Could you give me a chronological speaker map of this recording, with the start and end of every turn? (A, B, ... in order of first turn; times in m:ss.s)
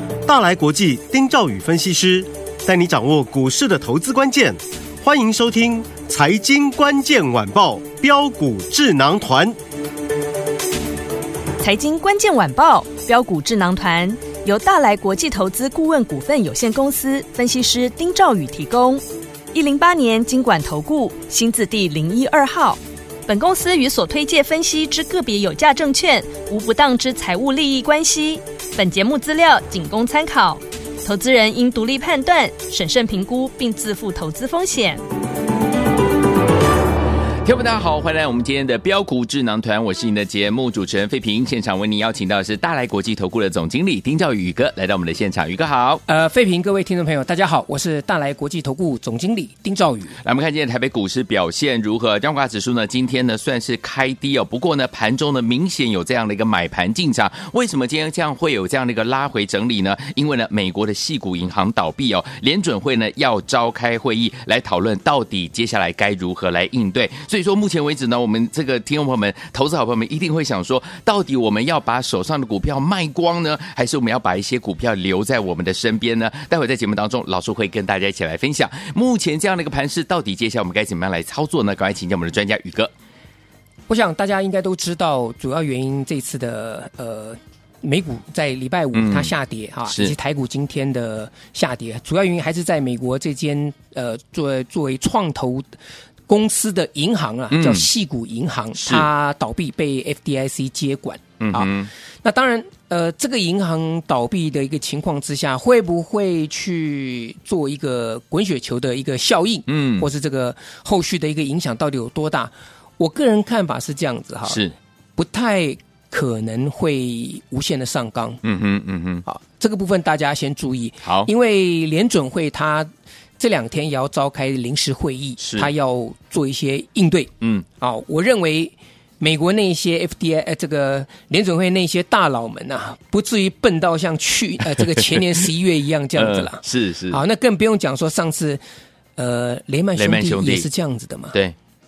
0:00.2-0:09.6 A
0:11.6-0:35.0 B
0:37.4-0:46.0 C
0:46.1-0:50.2 D
0:50.2-1:22.9 C
1:23.9-1:35.7 D
1:28.9-1:29.3 C
1:29.9-1:30.1 C
1:36.3-1:54.6 D
1:37.5-1:37.9 C
1:38.8-1:39.1 C
1:41.4-1:41.9 C
1:49.7-1:50.1 C
1:54.5-1:54.7 C
1:55.2-1:58.4 D
1:58.4-1:59.2 C
1:59.3-2:18.6 D
2:01.0-2:01.3 C
2:05.4-2:05.7 C
2:14.8-2:15.2 C
2:16.2-2:17.2 C
2:19.2-2:21.4 D
2:20.0-2:20.7 C